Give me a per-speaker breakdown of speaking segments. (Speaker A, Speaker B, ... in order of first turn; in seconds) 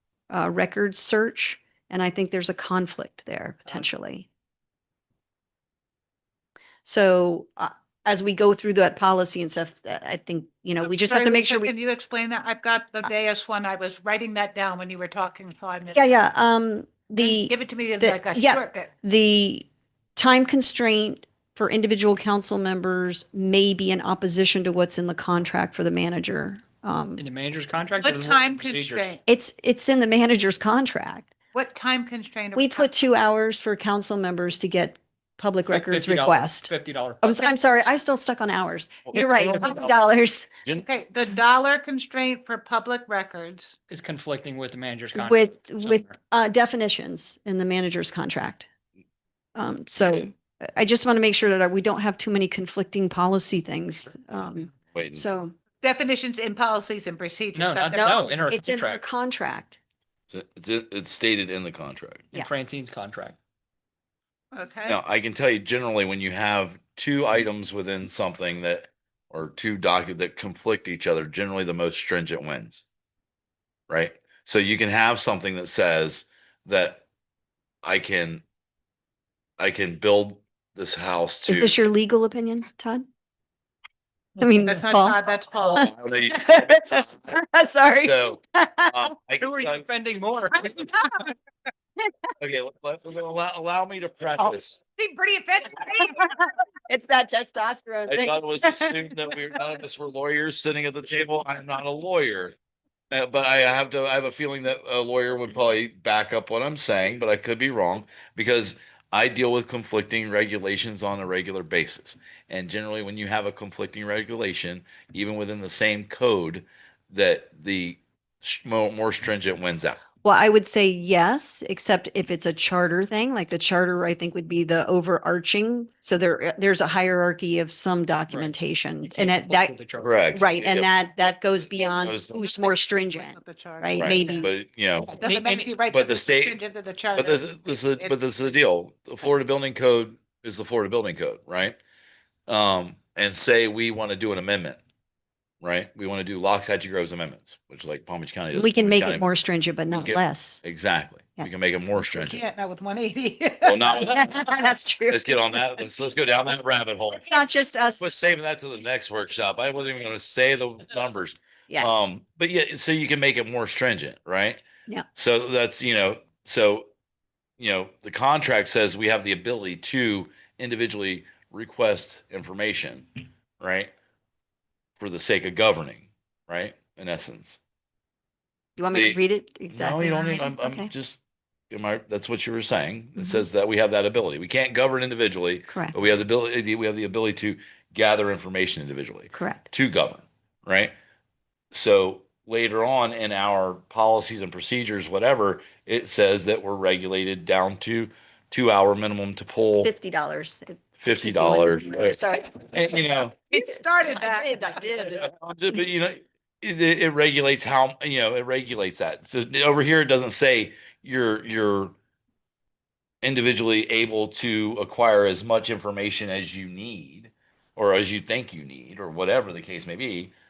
Speaker A: 0.3-4.3, 6.8-11.7, 15.9-27.2, 29.3-31.3, 32.5-36.7, 37.2-40.5, 45.1-48.7, 49.5-55.5, 57.9-59.8, 81.5-83.1, 84.4-85.2, 85.7-88.9, 96.1-98.4, 120.2-129.7, 130.3-134.5, 148.5-150.6, 153.9-155.8, 157.1-158.0, 178.8-180.9, 183.2-183.4, 185.7-185.9, 189.3-189.7, 199.8-202.6, 203.6-205.3
Speaker B: 10.8-16.1, 17.2-18.9, 28.0-29.2, 31.5-32.9, 39.4-39.8, 40.8-43.8, 55.8-58.4, 64.5-65.0, 84.5-85.9, 95.0-96.2, 132.3-134.5, 135.1-138.1, 152.0-154.1, 203.5-204.8
Speaker C: 27.2-29.2, 35.7-37.5, 43.9-46.2, 57.5-59.0, 62.3-63.4, 89.4-91.0, 128.3-130.2, 135.2-135.7
Speaker D: 39.1-40.0, 54.9-55.2, 60.3-62.3, 64.8-72.8, 73.9-77.0, 77.8-78.4, 79.6-81.8, 85.6-87.3, 88.0-89.8, 92.4-94.8, 98.1-102.5, 103.1-120.0, 130.0-130.9, 132.0-132.4, 133.9-135.2, 135.9-136.6, 137.1-141.8, 142.5-144.8, 145.6-149.3, 149.9-152.4, 153.6-154.4, 155.1-157.3, 158.0-164.6, 165.2-166.9, 167.6-173.9, 175.0-177.6, 178.9-181.2, 181.7-190.9, 191.7-199.9, 201.0-203.3, 205.1-211.9, 213.2-220.3